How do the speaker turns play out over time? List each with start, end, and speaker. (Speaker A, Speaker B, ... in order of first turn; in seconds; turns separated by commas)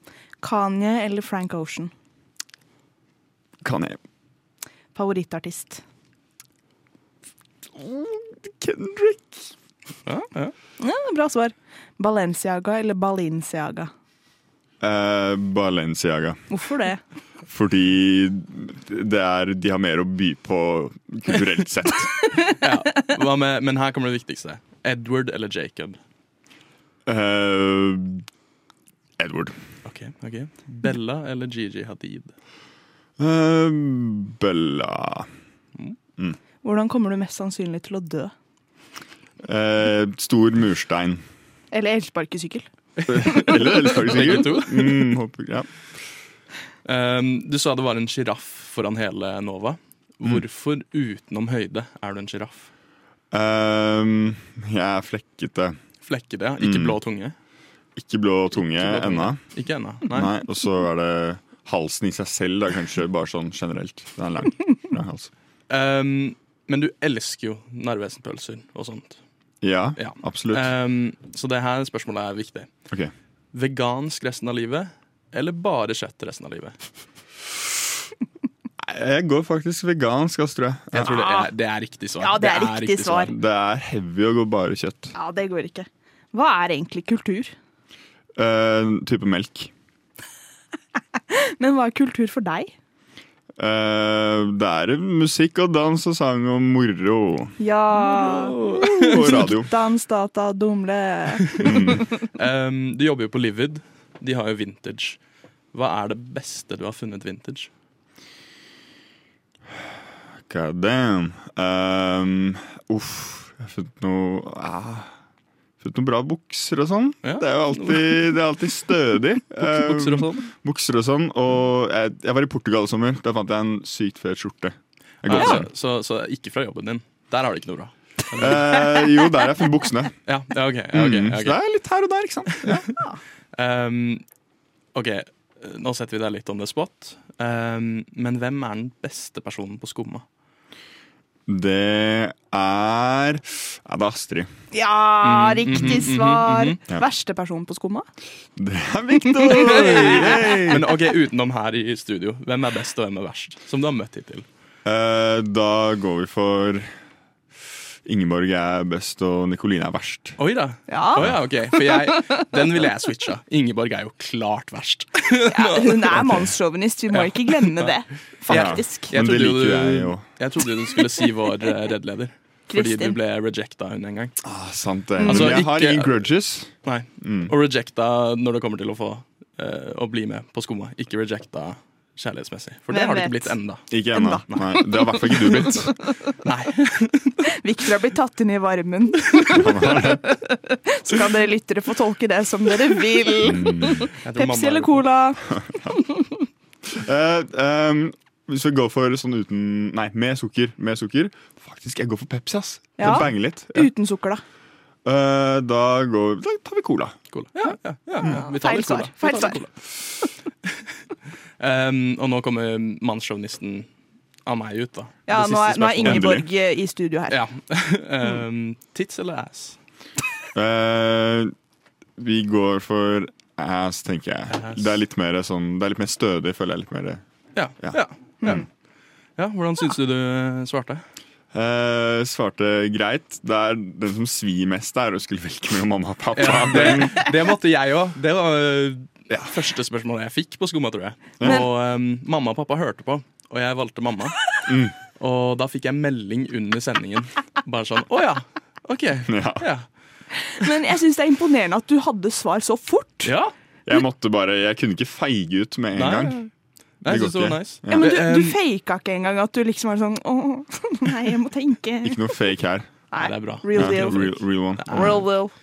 Speaker A: 0.4-1.9, Speaker B: 3.6-4.0, Speaker A: 4.9-5.8, Speaker B: 7.7-9.5, Speaker C: 10.1-10.5, Speaker A: 10.8-13.9, Speaker B: 14.8-16.4, Speaker A: 16.5-17.0, Speaker B: 17.5-22.1, Speaker A: 22.2-22.5, Speaker C: 22.6-26.0, Speaker B: 27.1-28.2, Speaker B: 29.2-29.6, Speaker C: 29.8-32.3, Speaker B: 33.2-35.3, Speaker A: 36.6-38.3, Speaker B: 39.4-41.2, Speaker A: 41.7-42.6, Speaker C: 43.0-45.1, Speaker B: 43.1-45.7, Speaker C: 46.8-52.7, Speaker B: 53.3-55.8, Speaker C: 56.0-57.3, Speaker B: 56.6-57.0, Speaker B: 58.0-59.4, Speaker C: 58.6-60.3, Speaker B: 60.0-65.3, Speaker C: 65.7-69.2, Speaker B: 69.6-70.7, Speaker C: 70.0-72.7, Speaker C: 73.5-76.8, Speaker B: 78.8-81.3, Speaker C: 80.9-83.3, Speaker A: 81.1-81.5, Speaker A: 82.2-83.3, Speaker B: 83.3-85.1, Speaker A: 85.1-87.5, Speaker B: 88.3-89.7, Speaker A: 91.3-92.7, Speaker B: 93.6-97.5, Speaker A: 97.6-101.7, Speaker C: 98.0-99.3, Speaker B: 99.0-99.7, Speaker B: 101.6-102.0, Speaker C: 102.3-105.2, Speaker C: 105.7-107.7, Speaker B: 110.5-115.1, Speaker B: 115.8-125.7, Speaker C: 117.2-118.4, Speaker C: 119.6-120.5, Speaker C: 125.2-129.0, Speaker B: 128.3-130.1, Speaker C: 130.2-131.6, Speaker B: 130.9-132.8, Speaker C: 132.5-132.9, Speaker C: 133.6-134.2, Speaker C: 134.9-140.2, Speaker B: 141.5-144.5, Speaker A: 144.7-148.1, Speaker C: 145.2-146.8, Speaker B: 148.6-150.8, Speaker A: 149.3-150.6, Speaker C: 149.5-154.4, Speaker B: 154.8-156.9, Speaker B: 158.0-160.4, Speaker C: 160.4-166.2, Speaker A: 160.9-161.3, Speaker A: 165.5-169.1, Speaker C: 167.1-167.9, Speaker B: 168.5-170.2, Speaker C: 168.5-174.4, Speaker A: 172.7-173.2, Speaker B: 174.4-177.5, Speaker A: 175.2-175.6, Speaker C: 175.2-176.2, Speaker C: 176.8-184.0, Speaker A: 182.9-183.5, Speaker B: 183.9-185.9, Speaker A: 184.1-184.4, Speaker C: 184.5-184.8, Speaker C: 186.4-187.4, Speaker A: 187.5-195.4, Speaker B: 189.5-190.2, Speaker B: 193.4-194.1, Speaker C: 194.2-195.1, Speaker B: 195.6-195.9, Speaker B: 196.9-203.9, Speaker A: 203.0-204.4, Speaker B: 205.0-207.2, Speaker C: 207.3-209.7, Speaker A: 208.2-209.6, Speaker C: 211.6-213.9, Speaker C: 214.4-216.4, Speaker A: 215.3-217.4, Speaker B: 216.0-216.4, Speaker C: 217.3-219.8, Speaker B: 220.5-221.5, Speaker B: 222.2-227.2, Speaker C: 224.5-224.9, Speaker C: 227.5-228.6, Speaker B: 227.8-228.6, Speaker C: 229.4-231.0, Speaker B: 231.5-237.2, Speaker C: 236.3-244.5, Speaker B: 241.4-241.7, Speaker B: 244.7-244.9, Speaker C: 245.2-249.8, Speaker B: 249.3-249.6, Speaker A: 250.5-253.3, Speaker C: 253.2-253.5, Speaker B: 253.8-256.4, Speaker C: 255.9-256.4, Speaker C: 257.0-258.6, Speaker B: 257.0-258.1, Speaker A: 257.9-262.2, Speaker B: 262.0-262.9, Speaker A: 263.1-264.4, Speaker C: 263.1-265.3, Speaker B: 263.7-265.2, Speaker A: 264.9-265.5